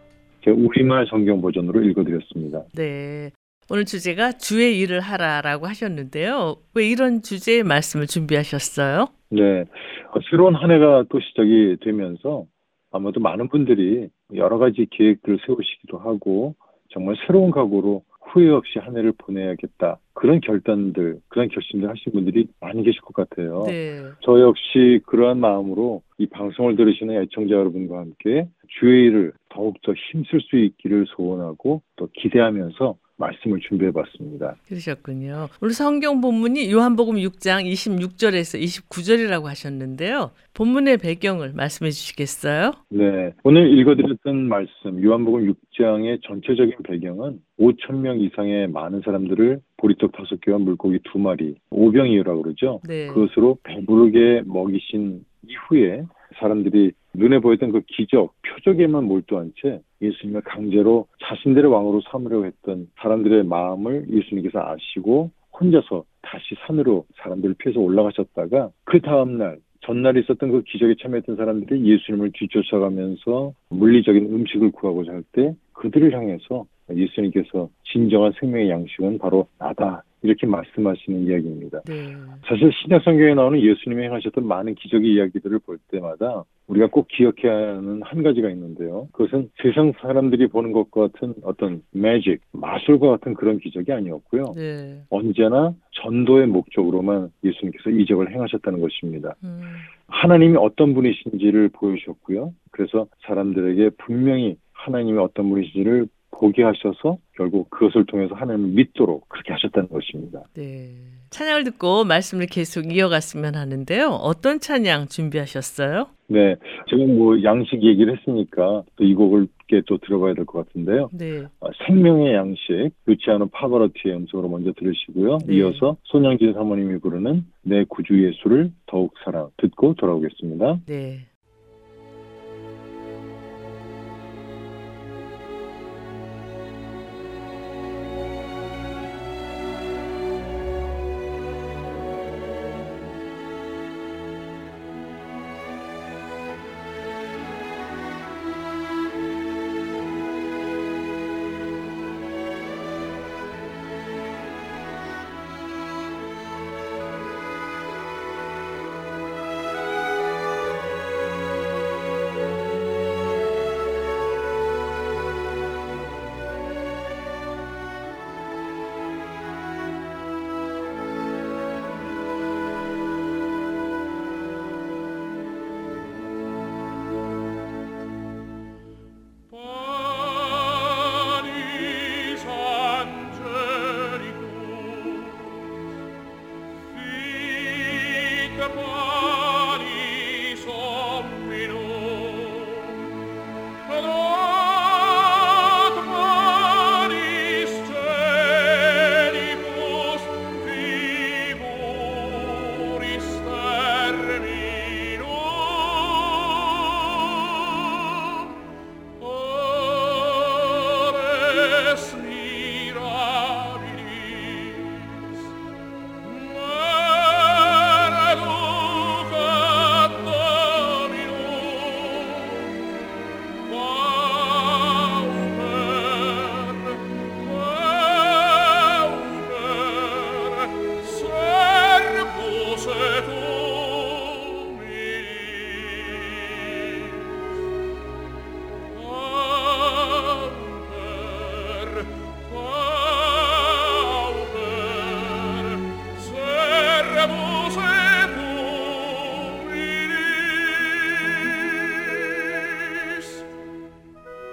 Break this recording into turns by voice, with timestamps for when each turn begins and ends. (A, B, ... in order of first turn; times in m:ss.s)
0:00.4-0:02.7 A
0:02.7-0:09.1 B
0:09.3-0:34.6 A
0:23.6-0:24.2 B
0:34.7-0:42.8 B
0:42.9-1:21.8 A
0:52.8-0:53.3 B
1:21.9-1:22.4 B
1:22.4-1:34.6 A
1:34.5-1:35.0 B
1:35.1-1:39.4 A
1:39.4-1:39.9 B
1:40.1-1:50.4 A
1:50.6-1:56.1 B
1:56.3-2:10.8 A
2:01.1-2:01.5 B
2:05.4-2:05.9 B
2:10.9-2:11.3 B